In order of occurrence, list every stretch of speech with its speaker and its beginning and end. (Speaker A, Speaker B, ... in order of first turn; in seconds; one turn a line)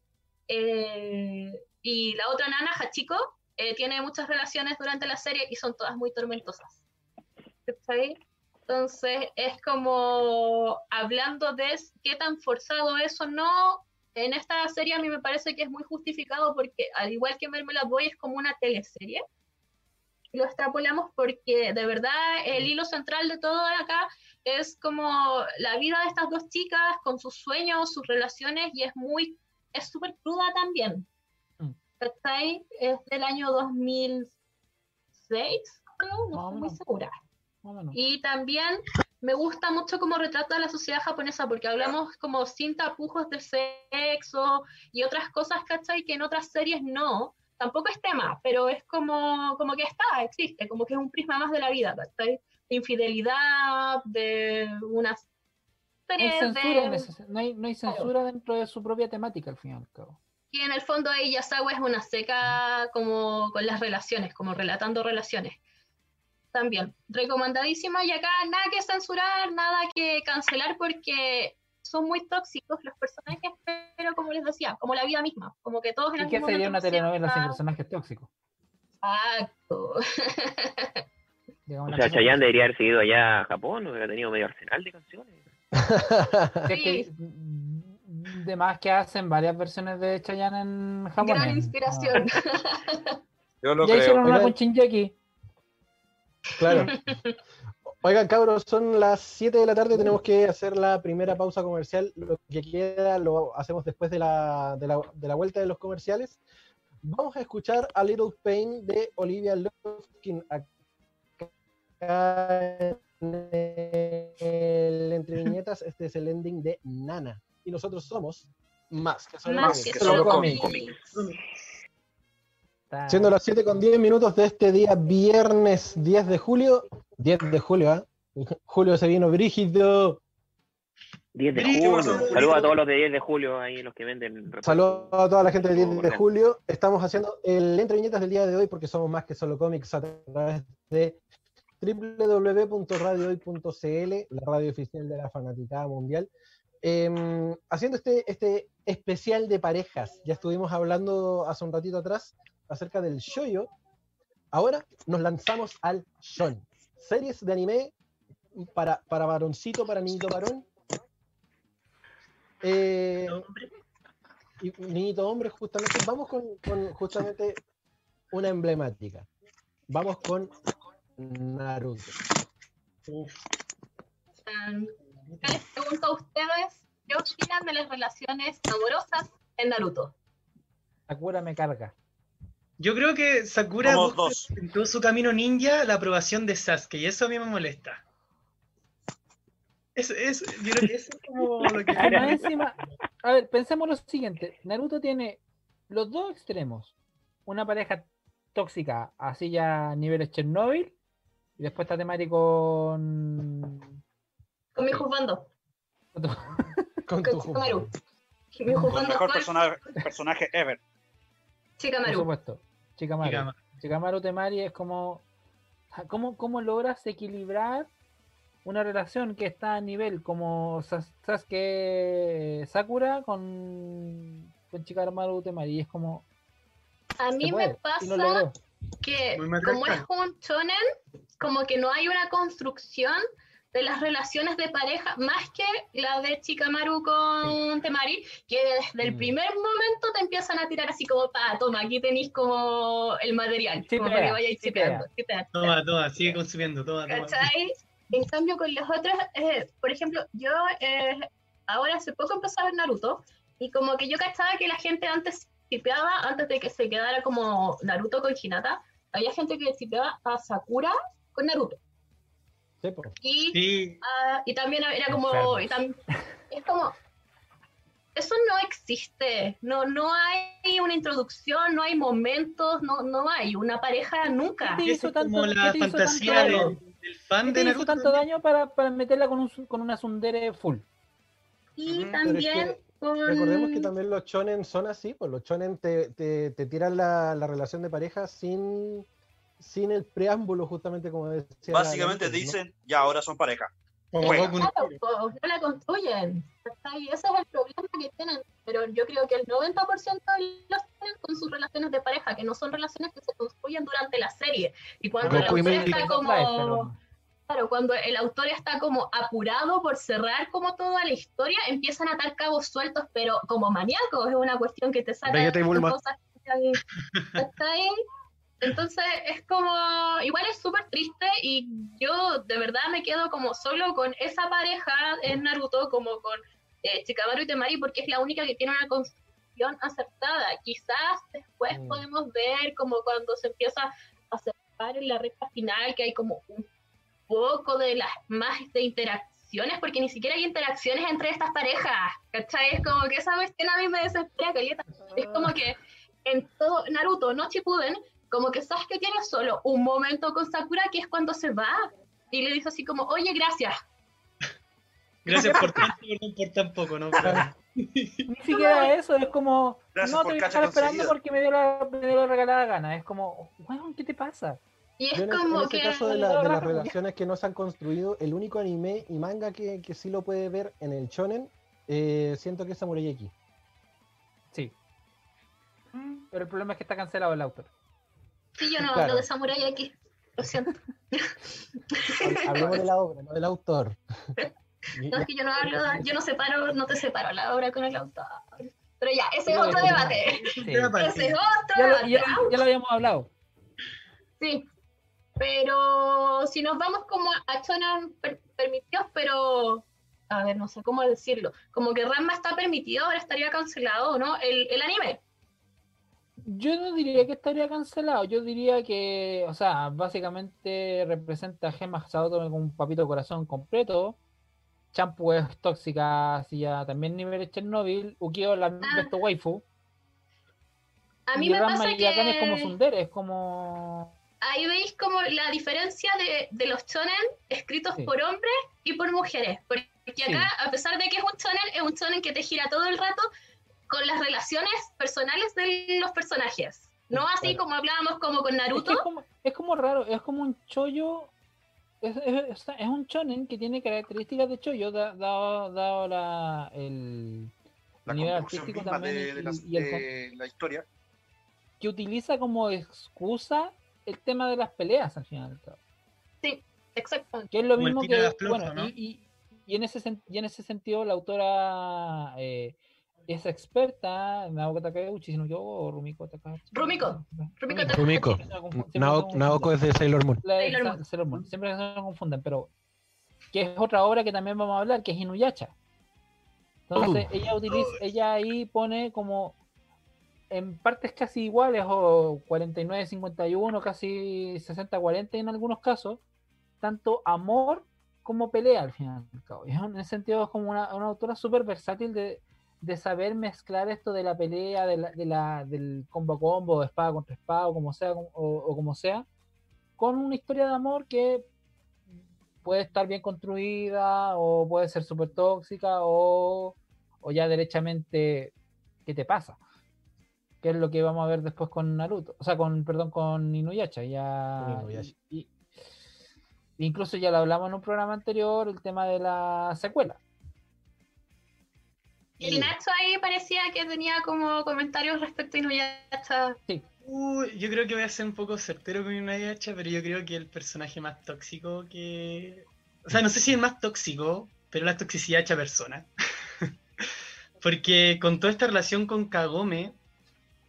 Speaker A: 0.5-6.8
Speaker A: 7.7-19.2
Speaker A: 20.3-31.1
Speaker A: 32.0-34.3
Speaker A: 35.2-37.1
Speaker B: 36.3-36.8
Speaker B: 37.6-38.0
Speaker A: 37.9-55.2
Speaker A: 56.1-57.1
Speaker B: 56.2-60.2
Speaker A: 60.5-65.6
Speaker A: 66.5-77.6
Speaker B: 76.2-78.3
Speaker A: 79.0-81.0
Speaker B: 81.7-82.7
Speaker C: 81.9-85.4
Speaker D: 85.8-86.6
Speaker B: 86.6-92.2
Speaker A: 86.7-87.1
Speaker A: 91.2-93.2
Speaker E: 93.6-94.2
Speaker B: 93.8-95.2
Speaker D: 94.2-94.5
Speaker D: 96.6-97.0
Speaker A: 96.7-97.4
Speaker D: 97.9-106.4
Speaker D: 107.0-110.7
Speaker D: 111.4-120.2
Speaker A: 119.5-121.0
Speaker E: 119.6-120.9
Speaker C: 120.0-120.8
Speaker B: 120.0-120.7
Speaker F: 121.1-121.4
Speaker B: 122.9-123.3
Speaker D: 123.1-130.2
Speaker C: 131.3-136.2
Speaker F: 131.6-132.7
Speaker E: 131.6-132.7
Speaker D: 134.6-141.2
Speaker D: 141.8-146.3
Speaker D: 146.8-153.7
Speaker D: 154.5-157.9
Speaker D: 158.6-160.7
Speaker D: 162.6-163.4
Speaker F: 163.3-163.7
Speaker D: 164.6-167.6
Speaker D: 168.3-169.3
Speaker D: 169.9-170.5
Speaker D: 171.2-172.2
Speaker F: 173.1-173.4
Speaker A: 174.4-180.1
Speaker F: 175.2-175.6
Speaker B: 181.1-181.9
Speaker F: 182.8-188.0
Speaker E: 183.8-184.5
Speaker F: 189.9-192.5
Speaker B: 191.9-196.9
Speaker B: 197.4-200.9
Speaker B: 201.6-203.9
Speaker A: 204.7-205.5
Speaker B: 206.1-206.8
Speaker D: 207.1-207.9
Speaker A: 207.2-207.9
Speaker A: 208.6-209.5
Speaker E: 208.8-210.8
Speaker A: 211.8-212.3
Speaker B: 212.0-215.2
Speaker F: 213.2-213.6
Speaker B: 215.9-217.9
Speaker B: 218.6-226.2
Speaker A: 227.2-228.5
Speaker D: 227.4-228.5
Speaker A: 229.0-230.8
Speaker F: 229.3-230.0
Speaker A: 231.4-233.2
Speaker A: 233.7-245.7
Speaker D: 239.0-239.3
Speaker B: 243.9-245.1
Speaker F: 245.5-247.5
Speaker A: 247.1-261.8
Speaker D: 262.8-263.1
Speaker A: 263.2-265.9
Speaker F: 263.5-264.0
Speaker B: 265.1-265.8
Speaker A: 266.5-266.9
Speaker A: 268.1-274.8
Speaker B: 274.6-276.7
Speaker F: 274.8-278.2
Speaker A: 276.2-276.8
Speaker B: 277.4-280.9
Speaker A: 281.8-283.9
Speaker F: 281.9-282.2
Speaker D: 282.2-289.1
Speaker D: 289.6-292.6
Speaker E: 291.7-294.5
Speaker F: 294.1-295.0
Speaker A: 294.2-306.9
Speaker B: 305.2-307.0
Speaker D: 305.2-306.0
Speaker A: 307.5-316.8
Speaker D: 315.2-316.0
Speaker A: 317.4-317.9
Speaker A: 318.6-336.6
Speaker D: 331.7-332.1
Speaker A: 337.3-353.8
Speaker F: 355.2-358.3
Speaker E: 355.3-355.9
Speaker D: 357.2-357.5
Speaker B: 358.3-364.6
Speaker A: 358.5-358.9
Speaker E: 359.9-361.1
Speaker A: 365.0-366.6
Speaker D: 365.1-373.3
Speaker B: 366.2-366.9
Speaker B: 376.3-377.7
Speaker A: 378.6-381.3
Speaker D: 378.9-379.3
Speaker A: 381.9-382.8
Speaker D: 382.2-384.0
Speaker D: 384.9-385.3
Speaker A: 385.1-392.6
Speaker B: 389.5-390.9
Speaker F: 389.7-391.4
Speaker B: 391.7-393.3
Speaker A: 394.4-394.6
Speaker A: 395.4-405.2
Speaker B: 406.4-414.2
Speaker B: 414.9-419.6
Speaker A: 418.8-419.1
Speaker A: 421.3-422.7
Speaker B: 421.4-424.1
Speaker A: 424.4-433.3
Speaker B: 430.2-430.5
Speaker A: 433.9-439.1
Speaker D: 437.2-437.6
Speaker B: 438.7-441.3
Speaker B: 442.0-447.5
Speaker E: 448.1-450.9
Speaker B: 448.1-450.0
Speaker B: 451.8-455.8
Speaker A: 456.4-457.5
Speaker B: 457.5-462.8
Speaker F: 457.8-458.9
Speaker B: 463.3-469.8
Speaker A: 466.7-468.3
Speaker D: 467.9-470.4
Speaker B: 470.4-472.7
Speaker A: 470.6-471.0
Speaker B: 473.5-475.7
Speaker B: 476.9-479.6
Speaker D: 476.9-477.3
Speaker B: 480.5-486.2
Speaker B: 486.8-499.2
Speaker B: 500.0-501.4
Speaker B: 502.6-508.5
Speaker B: 509.1-509.6
Speaker B: 510.6-515.5
Speaker D: 514.6-515.1
Speaker B: 516.8-520.2
Speaker A: 522.4-526.6
Speaker D: 522.4-522.7
Speaker F: 527.0-536.1
Speaker F: 537.6-540.0